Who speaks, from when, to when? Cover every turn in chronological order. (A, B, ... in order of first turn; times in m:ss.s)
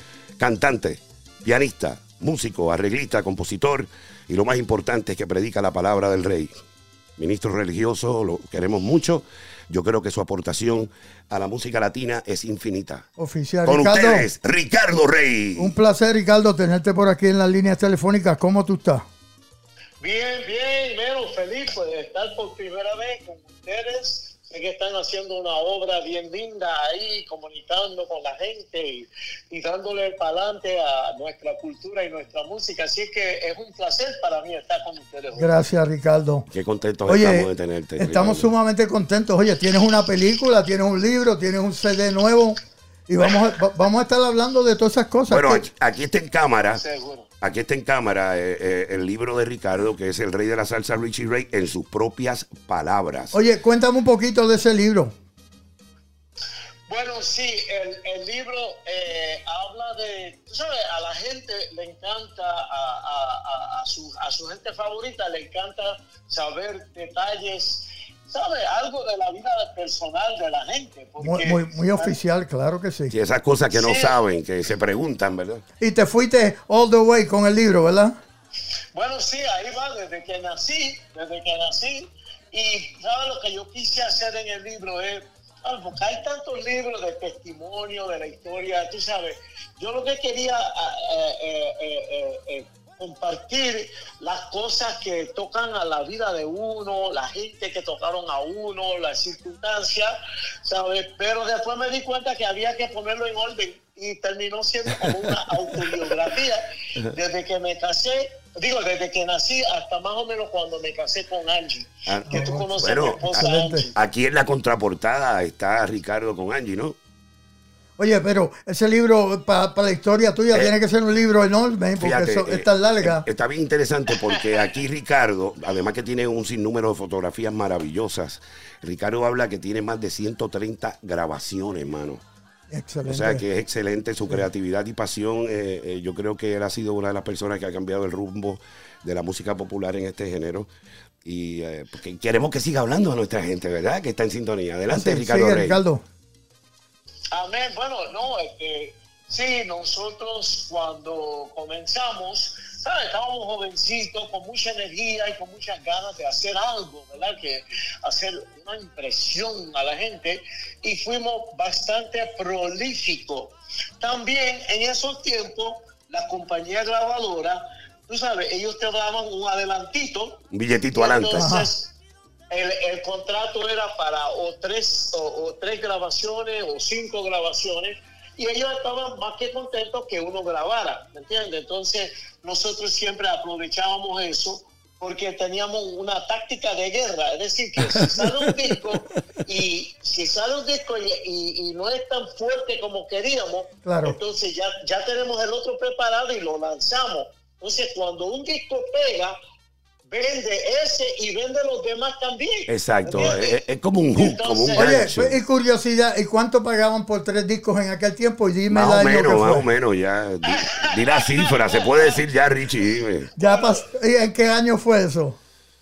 0:00.4-0:06.6 A
0:07.2-0:13.1 A
0:13.2-0:14.3 B
0:13.6-0:15.8 A
0:15.6-0:19.1 B
0:20.0-0:35.5 C
0:35.4-0:36.5 B
0:36.5-0:38.5 A
0:37.1-0:45.6 B
0:45.3-0:46.8 A
0:46.8-0:47.3 C
0:47.4-0:53.4 A
0:53.3-0:55.2 B
0:56.9-1:12.2 C
1:11.2-1:13.1 B
1:13.1-1:15.6 A
1:13.7-1:14.2 C
1:15.8-1:18.2 B
1:18.9-1:54.0 C
1:52.1-1:53.3 A
1:52.3-1:52.7 B
1:53.2-1:53.8 B
1:54.0-1:57.0 A
1:58.0-2:03.2 B
2:02.0-2:12.2 A
2:12.7-2:13.4 B
2:13.1-2:20.7 A
2:21.2-2:25.8 A
2:24.9-2:26.0 B
2:27.3-2:50.4 C
2:50.5-2:51.5 A
2:50.9-2:51.9 C
2:51.4-2:51.7 B
2:52.5-3:19.4 C
3:07.9-3:08.5 A
3:13.8-3:14.2 B
3:20.1-3:23.6 C
3:22.7-3:25.4 A
3:24.2-3:24.9 C
3:24.8-3:29.7 B
3:28.7-3:33.3 A
3:30.4-3:32.3 C
3:33.4-3:33.8 C
3:33.4-3:35.4 B